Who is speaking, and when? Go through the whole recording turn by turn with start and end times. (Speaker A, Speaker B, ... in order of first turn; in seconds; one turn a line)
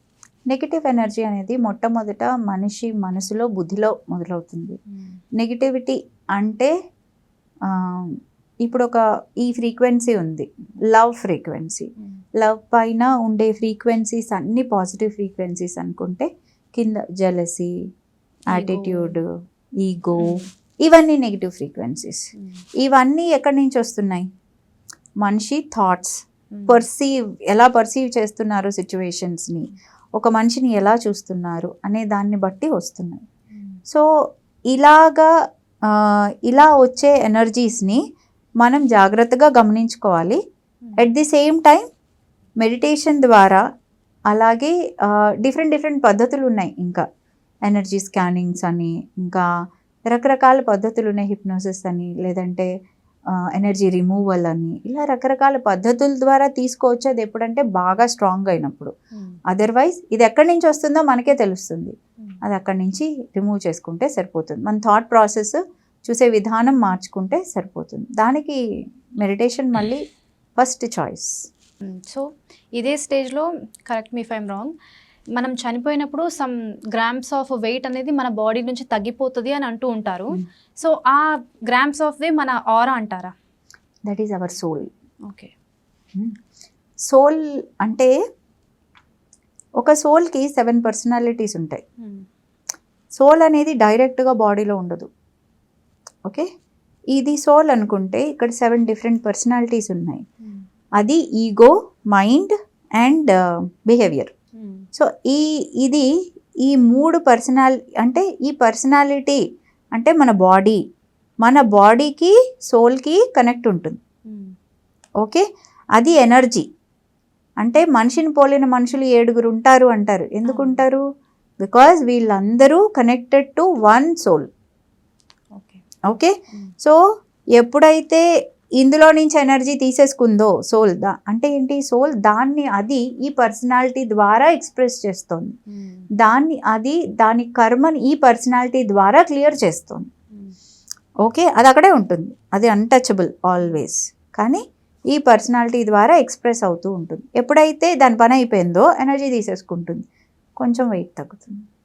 Speaker A: 0.5-4.8
Speaker B: 4.9-5.2
Speaker A: 5.4-6.7
Speaker A: 7.7-17.7
Speaker B: 18.5-19.2
Speaker A: 18.5-19.3
Speaker A: 19.8-22.3
Speaker B: 20.2-20.5
Speaker A: 22.8-24.2
Speaker A: 25.2-33.2
Speaker B: 26.5-26.8
Speaker B: 33.5-33.8
Speaker A: 34.7-35.3
Speaker A: 35.9-38.0
Speaker A: 38.6-40.4
Speaker A: 41.0-41.8
Speaker A: 42.6-43.6
Speaker A: 44.3-47.0
Speaker A: 47.6-49.5
Speaker A: 50.1-52.7
Speaker A: 53.5-58.9
Speaker A: 59.5-68.6
Speaker A: 69.2-70.0
Speaker A: 70.6-71.3
Speaker B: 71.8-74.7
Speaker B: 75.3-83.3
Speaker A: 84.1-84.9
Speaker B: 85.3-85.5
Speaker A: 87.1-88.1
Speaker A: 89.8-91.8
Speaker A: 93.2-95.1
Speaker A: 97.1-100.2
Speaker A: 101.0-104.3
Speaker B: 104.6-104.8
Speaker A: 105.0-106.1
Speaker A: 106.6-109.4
Speaker A: 109.9-110.8
Speaker A: 111.4-114.0
Speaker B: 114.3-114.5
Speaker A: 116.0-116.7
Speaker A: 117.6-121.0
Speaker B: 120.5-120.8
Speaker A: 121.6-124.5
Speaker B: 125.5-125.8
Speaker A: 126.1-127.0
Speaker A: 127.6-128.2
Speaker A: 128.8-135.6
Speaker B: 135.7-136.1
Speaker A: 136.2-140.1
Speaker A: 141.2-150.0
Speaker A: 150.6-151.6